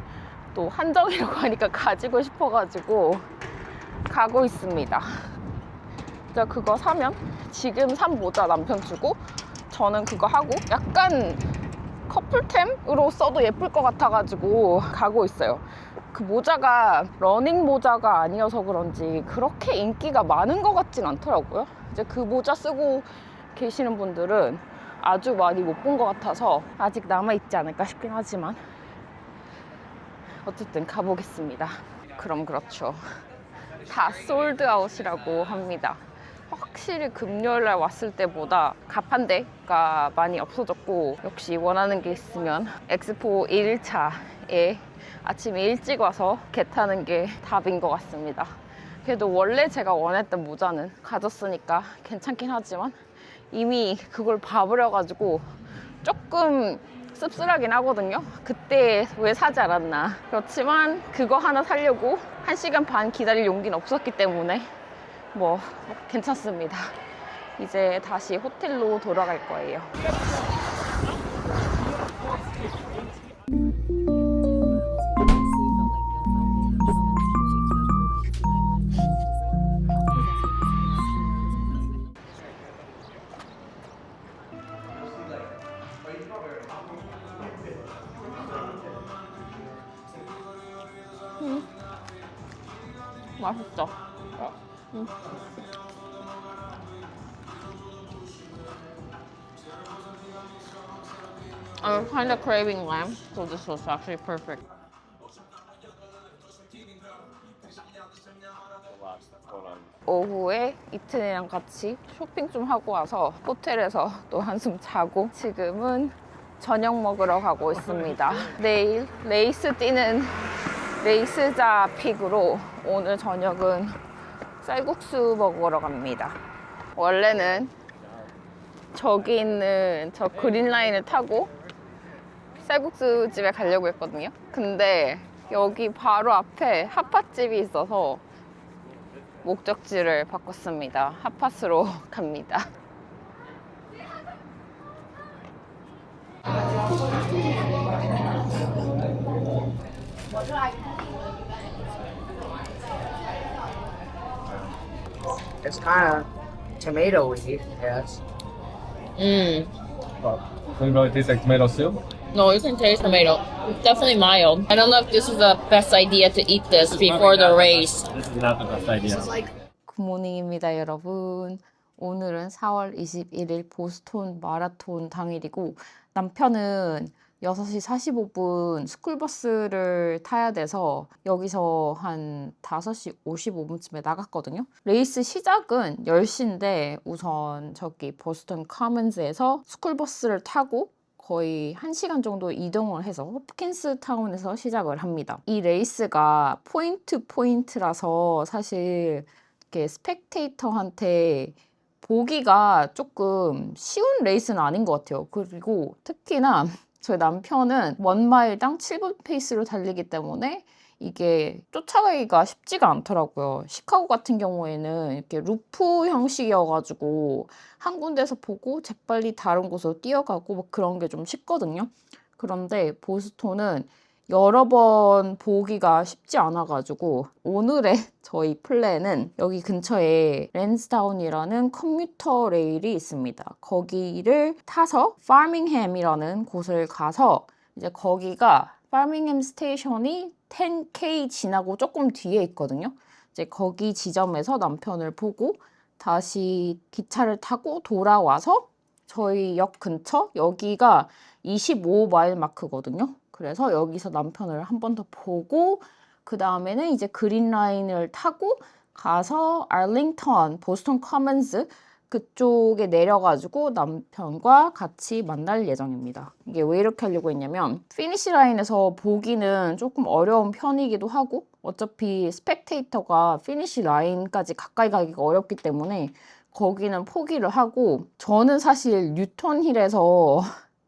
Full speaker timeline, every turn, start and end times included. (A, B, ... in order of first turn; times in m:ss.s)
0:00.5-0:03.2 A
0:04.1-0:05.1 A
0:06.3-0:11.4 A
0:12.1-0:28.6 A
0:30.4-0:33.0 A
0:33.9-0:48.5 A
0:49.0-0:53.0 A
0:53.5-0:55.4 A
0:56.0-1:04.7 A
1:05.3-1:07.0 A
1:07.6-1:09.9 A
1:31.4-1:31.6 A
1:33.4-1:35.1 A
1:41.8-1:44.6 A
1:48.9-1:49.9 B
1:50.1-2:00.3 A
1:57.7-1:58.5 B
2:01.0-2:03.9 A
2:04.6-2:06.4 A
2:07.0-2:07.7 A
2:09.0-2:11.5 A
2:12.6-2:18.2 A
2:19.4-2:22.7 A
2:35.6-2:38.2 C
2:39.2-2:39.7 A
2:40.2-2:42.0 B
2:42.3-2:48.0 A
2:46.8-2:49.4 B
2:49.2-4:40.5 A